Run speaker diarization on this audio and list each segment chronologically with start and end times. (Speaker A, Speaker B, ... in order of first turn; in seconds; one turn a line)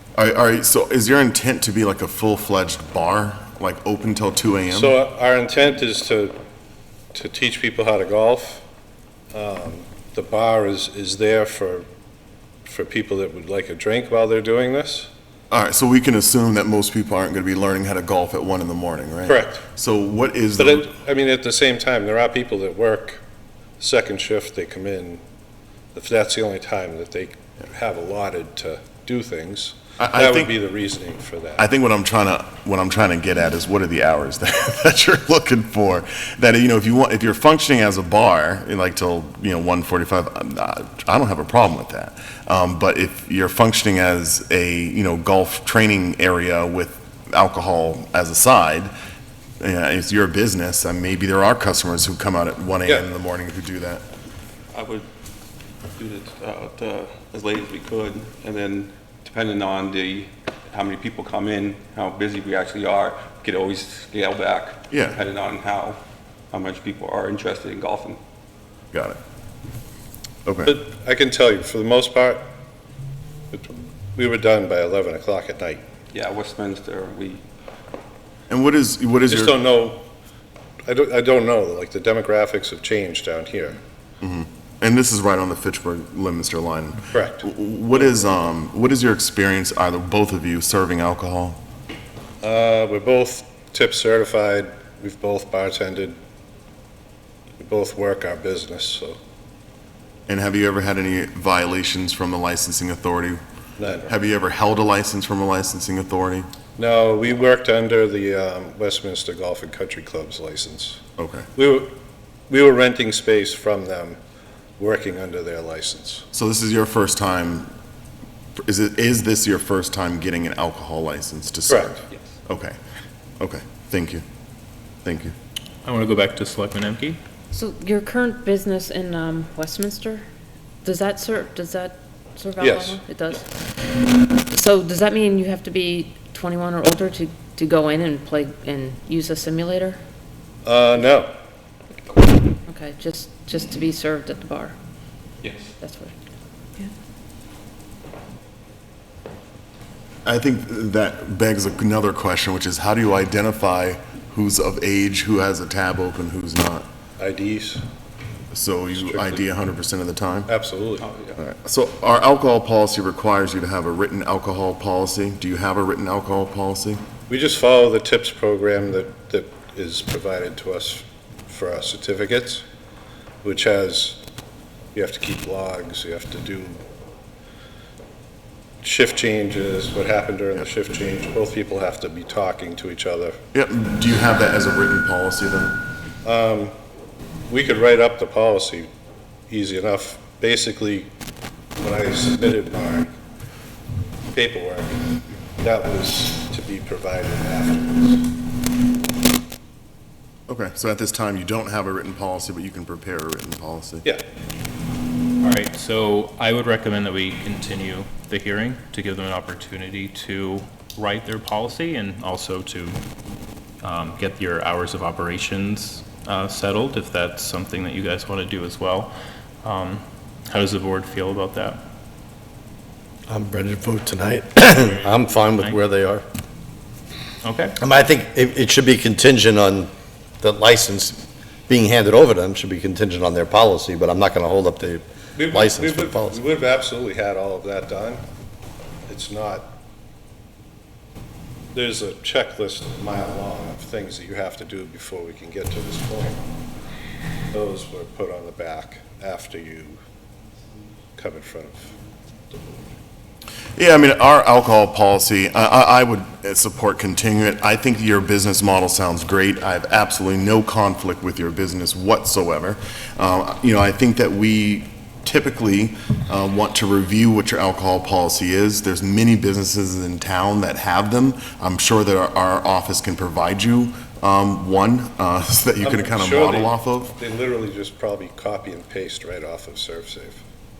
Speaker A: 0.1-5.0
Speaker B: 4.7-6.3
Speaker B: 7.1-8.6
Speaker B: 9.3-11.9
Speaker B: 12.6-15.1
Speaker A: 15.5-20.9
Speaker B: 19.2-19.6
Speaker B: 20.6-23.2
Speaker B: 23.8-25.2
Speaker B: 25.9-31.6
Speaker A: 30.0-30.5
Speaker A: 31.6-48.9
Speaker A: 49.6-54.0
Speaker C: 54.7-55.0
Speaker C: 56.0-66.0
Speaker A: 64.9-65.2
Speaker C: 66.5-68.2
Speaker A: 68.9-69.2
Speaker A: 70.5-70.8
Speaker B: 70.6-72.4
Speaker B: 73.5-75.8
Speaker C: 76.1-77.4
Speaker A: 78.5-79.6
Speaker B: 79.3-80.0
Speaker B: 80.8-83.8
Speaker A: 84.2-91.6
Speaker B: 87.1-87.4
Speaker B: 92.4-96.2
Speaker B: 97.6-99.2
Speaker A: 100.3-103.4
Speaker B: 103.8-104.1
Speaker A: 104.0-106.5
Speaker B: 106.8-111.0
Speaker A: 111.2-111.5
Speaker B: 111.5-111.9
Speaker B: 112.5-114.2
Speaker B: 114.8-116.2
Speaker A: 116.3-117.7
Speaker A: 118.6-122.8
Speaker B: 121.7-122.0
Speaker A: 123.4-124.2
Speaker A: 125.0-125.3
Speaker D: 125.8-127.2
Speaker E: 127.5-130.3
Speaker E: 130.8-133.5
Speaker B: 132.6-133.0
Speaker E: 134.4-140.0
Speaker B: 140.6-141.3
Speaker E: 142.7-144.8
Speaker C: 145.4-145.7
Speaker E: 145.8-146.1
Speaker A: 150.2-156.9
Speaker B: 157.2-157.8
Speaker A: 158.5-160.5
Speaker B: 158.9-159.4
Speaker B: 160.5-161.1
Speaker C: 161.0-161.3
Speaker A: 161.3-167.0
Speaker B: 167.3-172.6
Speaker B: 173.4-174.2
Speaker B: 174.9-176.8
Speaker B: 178.8-183.4
Speaker A: 183.5-185.8
Speaker B: 186.2-186.7
Speaker B: 187.5-188.9
Speaker B: 189.5-191.1
Speaker B: 191.8-193.1
Speaker B: 194.3-198.2
Speaker A: 200.5-204.1
Speaker D: 205.4-213.0
Speaker D: 213.8-221.8
Speaker F: 223.3-226.2
Speaker D: 227.4-227.8
Speaker F: 227.8-236.4
Speaker B: 235.3-238.2
Speaker B: 239.1-239.8
Speaker B: 241.7-246.4
Speaker B: 247.5-250.0
Speaker B: 251.2-251.9
Speaker B: 252.5-252.9
Speaker A: 253.8-277.1
Speaker B: 275.8-280.4